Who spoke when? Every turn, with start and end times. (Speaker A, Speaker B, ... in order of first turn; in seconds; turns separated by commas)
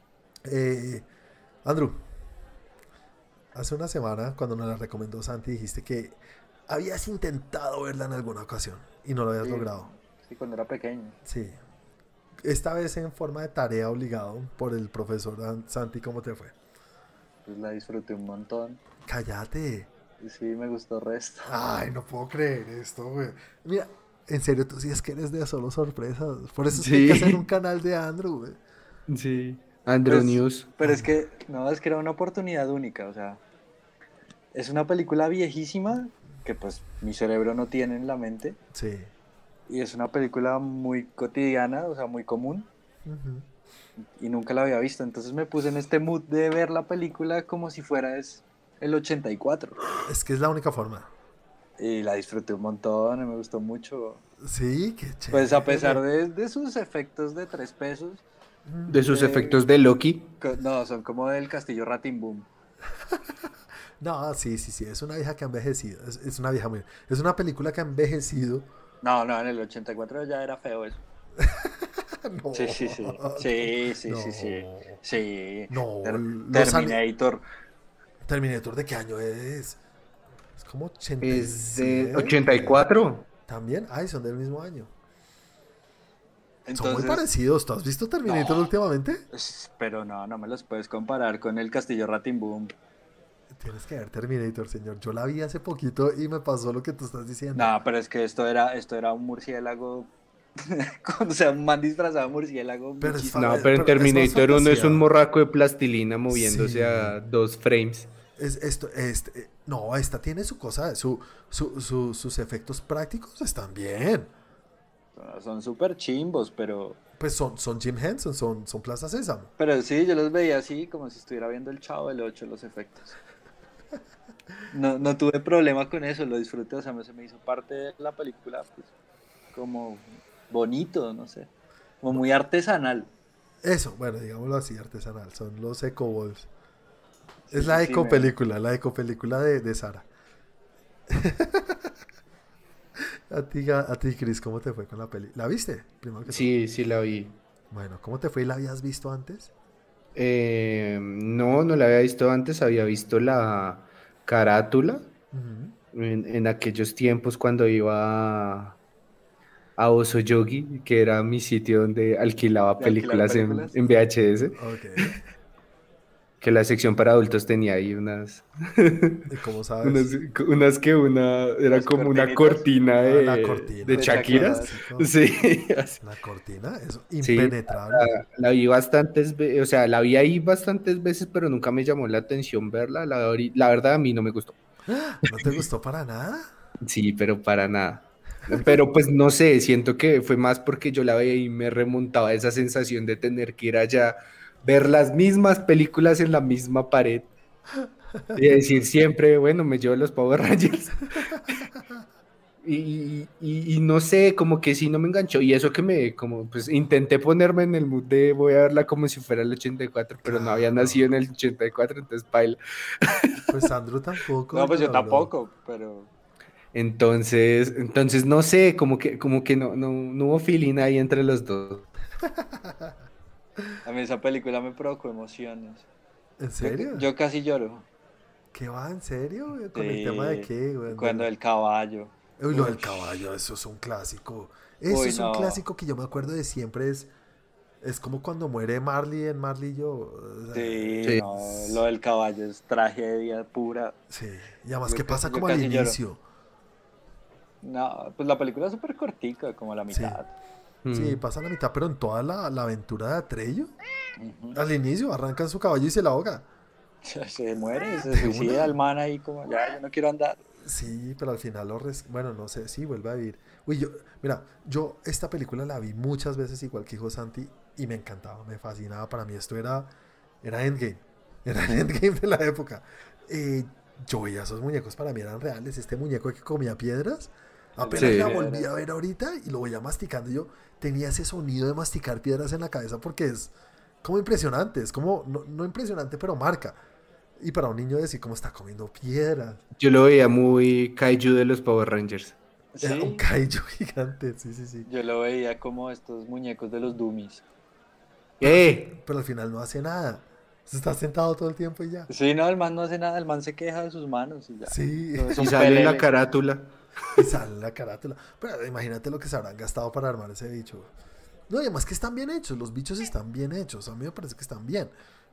Speaker A: 0.4-1.1, Speaker A: 1.6-2.0, Speaker A: 3.5-9.9, Speaker B: 9.4-11.2, Speaker A: 11.2-11.6, Speaker A: 12.4-16.5, Speaker B: 17.4-18.8, Speaker A: 19.0-19.9, Speaker B: 20.2-21.5, Speaker A: 21.4-28.6, Speaker C: 26.7-27.4, Speaker C: 29.1-30.7, Speaker B: 30.1-33.4, Speaker A: 30.8-31.1, Speaker B: 34.5-38.6, Speaker A: 38.7-39.1, Speaker B: 39.7-42.7, Speaker A: 43.0-43.5, Speaker B: 44.1-49.9, Speaker A: 50.0-51.1, Speaker B: 51.8-54.2, Speaker A: 54.4-56.0, Speaker B: 55.3-58.2, Speaker A: 58.6-59.0, Speaker C: 58.9-60.3, Speaker B: 59.1-59.6, Speaker B: 60.4-62.5, Speaker A: 64.0-68.7, Speaker B: 69.0-71.0, Speaker A: 71.4-75.0, Speaker B: 72.5-77.4, Speaker A: 75.7-77.0, Speaker A: 78.2-79.8, Speaker A: 80.6-82.8, Speaker C: 81.2-83.3, Speaker A: 83.5-84.9, Speaker B: 86.6-87.2, Speaker A: 86.7-89.2, Speaker B: 88.2-88.6, Speaker B: 89.3-92.7, Speaker A: 93.5-97.7, Speaker B: 97.5-103.5, Speaker A: 103.0-105.1, Speaker C: 103.3-108.1, Speaker A: 106.3-107.2, Speaker A: 108.3-114.3, Speaker B: 115.2-117.0, Speaker A: 117.2-119.5, Speaker B: 119.6-123.1, Speaker B: 124.7-128.9, Speaker B: 129.5-131.5, Speaker B: 132.0-133.1, Speaker A: 133.6-136.5, Speaker B: 137.5-138.3, Speaker A: 137.5-140.1, Speaker A: 141.1-141.9, Speaker A: 143.0-146.5, Speaker C: 146.3-147.4, Speaker A: 147.7-149.5, Speaker C: 150.2-155.1, Speaker A: 155.3-155.8, Speaker C: 155.9-158.8, Speaker C: 159.8-164.6, Speaker B: 162.8-163.8, Speaker A: 164.5-165.2, Speaker C: 166.4-169.3, Speaker A: 169.3-170.1, Speaker C: 169.8-176.0, Speaker B: 171.7-172.7, Speaker A: 173.0-175.1, Speaker B: 173.9-174.8, Speaker A: 176.0-178.1, Speaker C: 177.2-184.6, Speaker A: 184.9-186.5, Speaker C: 185.3-185.5, Speaker C: 186.8-197.3, Speaker A: 188.5-188.8, Speaker A: 197.8-198.6, Speaker C: 198.3-201.6, Speaker A: 201.3-202.0, Speaker C: 202.6-213.5, Speaker A: 210.2-211.1, Speaker A: 213.5-215.3, Speaker B: 214.5-216.1, Speaker C: 216.7-221.9, Speaker A: 222.2-222.9, Speaker B: 223.8-225.9, Speaker A: 226.4-227.1, Speaker B: 226.6-227.8, Speaker A: 228.5-231.3, Speaker B: 229.7-233.2, Speaker A: 232.4-237.1, Speaker B: 234.9-235.6, Speaker A: 237.8-241.8, Speaker B: 240.5-243.9, Speaker A: 244.1-246.2, Speaker B: 244.9-246.0, Speaker B: 247.6-250.3, Speaker A: 249.9-250.2, Speaker C: 250.8-251.2, Speaker A: 250.9-253.7, Speaker B: 254.2-254.6, Speaker A: 254.5-256.5, Speaker B: 257.0-260.4, Speaker A: 258.0-258.8, Speaker A: 260.6-269.9, Speaker A: 270.4-286.8, Speaker B: 277.8-278.7, Speaker C: 278.0-278.3, Speaker A: 287.4-289.6, Speaker C: 289.8-292.4, Speaker B: 292.7-293.2, Speaker A: 292.8-294.9, Speaker B: 294.9-297.4, Speaker C: 298.4-299.0, Speaker A: 298.4-302.1, Speaker B: 302.1-306.1, Speaker A: 304.6-305.6, Speaker C: 305.4-306.7, Speaker A: 307.1-310.9, Speaker A: 311.5-314.9